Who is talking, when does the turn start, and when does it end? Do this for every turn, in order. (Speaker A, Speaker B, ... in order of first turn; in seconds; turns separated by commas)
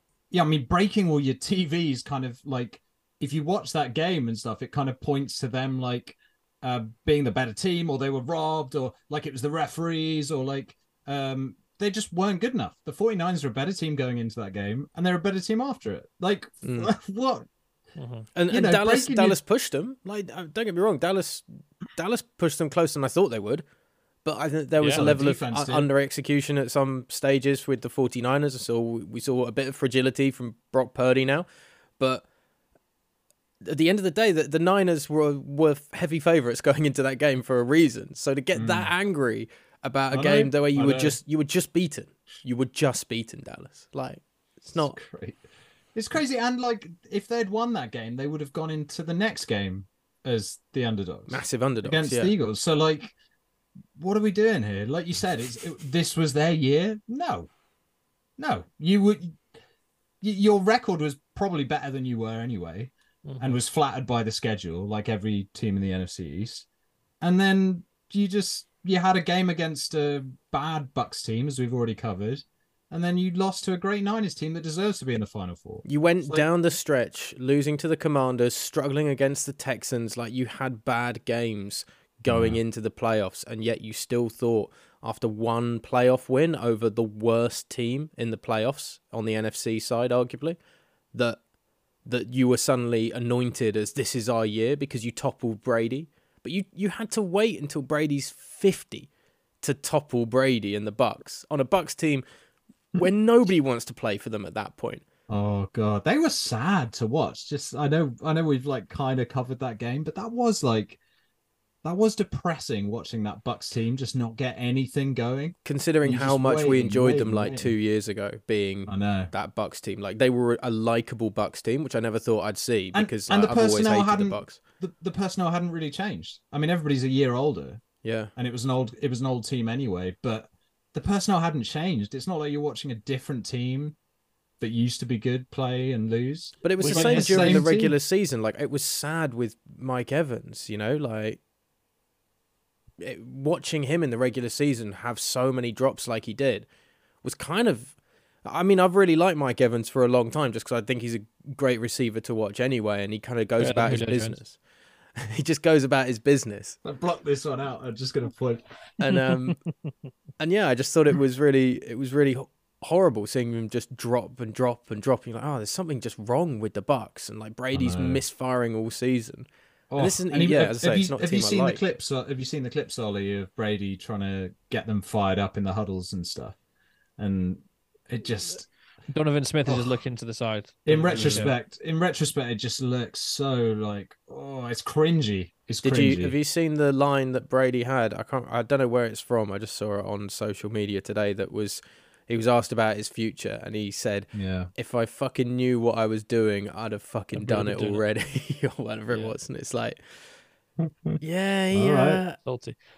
Speaker A: 0.3-17.5, Speaker B: 16.6-16.9, Speaker C: 18.0-18.3, Speaker B: 18.4-23.7, Speaker A: 18.5-19.4, Speaker B: 24.2-31.5, Speaker C: 24.8-25.1, Speaker A: 24.9-25.9, Speaker B: 32.0-32.3, Speaker B: 33.6-45.0, Speaker A: 38.5-38.9, Speaker A: 40.1-41.2, Speaker A: 44.7-53.1, Speaker B: 51.3-52.4, Speaker A: 54.0-57.5, Speaker A: 58.4-59.5, Speaker A: 60.2-66.7, Speaker C: 63.2-63.6, Speaker A: 67.2-76.5, Speaker B: 75.9-90.6, Speaker A: 82.3-82.6, Speaker B: 91.1-91.5, Speaker B: 92.0-99.1, Speaker B: 99.6-102.2, Speaker B: 102.9-105.0, Speaker A: 105.3-111.0, Speaker A: 111.8-117.7, Speaker B: 115.7-124.6, Speaker A: 118.9-119.3, Speaker A: 122.9-134.0, Speaker B: 128.0-128.3, Speaker A: 134.6-138.0, Speaker B: 136.6-141.4, Speaker C: 136.8-137.7, Speaker B: 143.0-146.7, Speaker B: 147.2-154.6, Speaker C: 153.6-154.4, Speaker B: 155.1-156.8, Speaker A: 156.8-158.7, Speaker B: 159.0-159.7, Speaker B: 160.4-171.8, Speaker A: 167.7-168.2, Speaker A: 169.9-176.6, Speaker A: 177.2-178.7, Speaker C: 179.1-181.5, Speaker A: 180.8-186.3, Speaker B: 181.1-181.5, Speaker B: 185.8-200.4, Speaker A: 194.3-194.7, Speaker C: 197.3-198.0, Speaker C: 199.1-199.3, Speaker A: 200.8-201.2, Speaker B: 201.2-202.4, Speaker A: 201.7-202.2, Speaker C: 202.4-202.8